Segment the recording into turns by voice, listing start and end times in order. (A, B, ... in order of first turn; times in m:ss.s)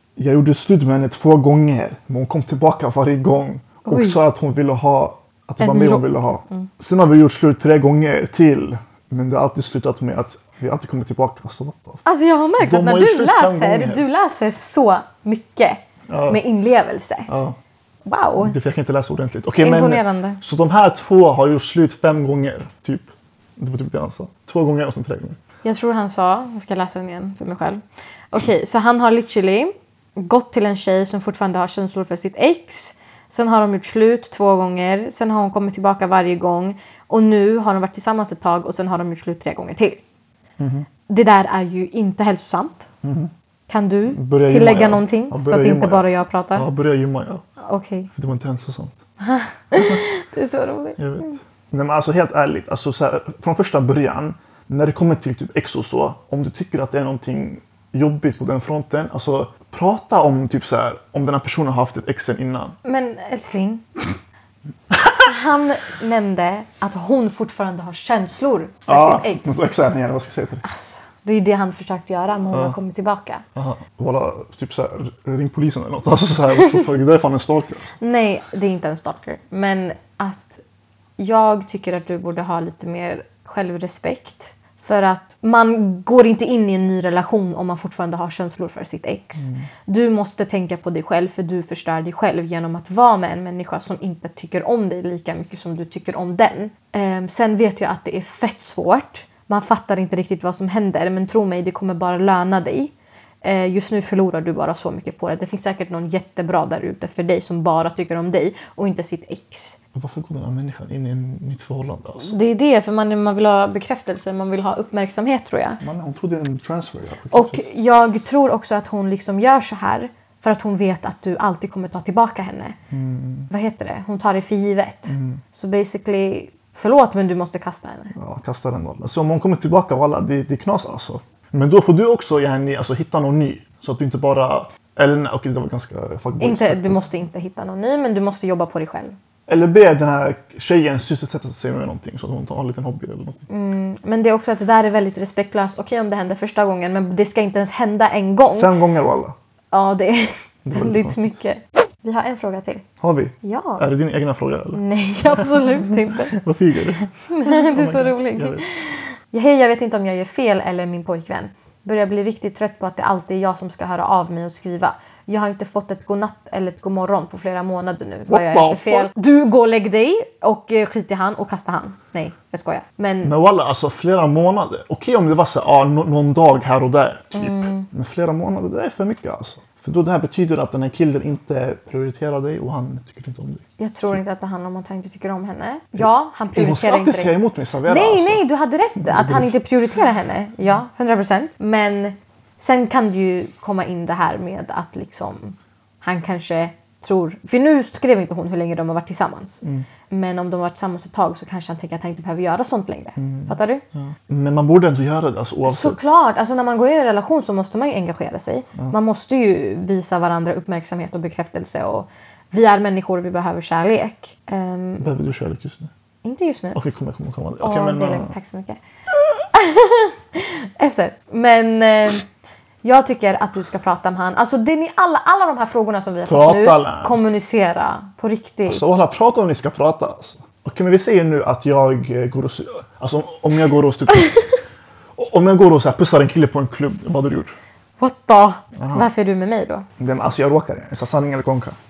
0:00.2-0:12.0 A
0:03.8-0:04.2 B
0:05.6-0:06.7 B
0:12.0-0:17.3 B
0:12.6-0:14.0 A
0:16.1-0:16.4 A
0:17.3-0:17.6 A
0:18.0-0:18.5 B
0:18.4-0:25.4 A
0:19.6-0:20.4 B
0:25.6-0:27.8 B
0:28.3-0:40.0 B
0:40.6-0:40.9 A
0:41.1-0:42.9 B
0:43.0-0:43.3 A
0:43.7-0:46.6 B
0:44.1-0:47.4 A
0:47.6-0:48.1 B
0:48.1-0:49.0 A
0:49.2-0:51.4 B
0:49.8-0:50.0 A
0:51.0-1:02.8 A
1:02.8-1:03.8 B
1:05.2-1:09.7 B
1:08.9-1:10.6 A
1:10.6-1:13.4 B
1:12.5-1:12.8 A
1:13.6-1:17.9 A
1:18.0-1:20.6 B
1:21.2-1:49.8 B
1:29.4-1:29.7 A
1:49.9-1:52.4 A
1:52.2-1:55.8 B
1:55.8-1:57.6 A
1:57.3-2:02.8 B
2:02.9-2:03.5 A
2:03.5-2:08.1 B
2:05.1-2:05.4 A
2:08.1-2:17.0 A
2:16.4-2:19.2 B
2:19.5-2:23.4 A
2:23.5-2:28.7 B
2:28.5-2:29.3 A
2:29.7-2:32.8 B
2:30.6-2:31.4 A
2:33.0-2:38.6 A
2:33.4-2:33.8 B
2:34.7-2:36.4 B
2:37.2-2:53.3 B
2:48.3-2:49.1 A
2:53.2-3:04.2 A
2:57.3-2:57.9 B
3:03.8-3:23.8 B
3:06.0-3:08.4 A
3:09.0-3:09.5 A
3:23.2-3:26.1 A
3:25.6-3:35.1 B
3:35.0-3:35.9 A
3:36.2-3:36.8 B
3:36.7-3:38.3 A
3:37.6-3:38.8 B
3:39.5-3:42.3 B
3:42.8-3:48.8 B
3:46.2-3:47.2 A
3:48.7-3:54.4 A
3:55.2-3:57.6 A
3:58.0-3:59.8 B
3:58.8-3:59.1 A
4:00.0-4:01.8 A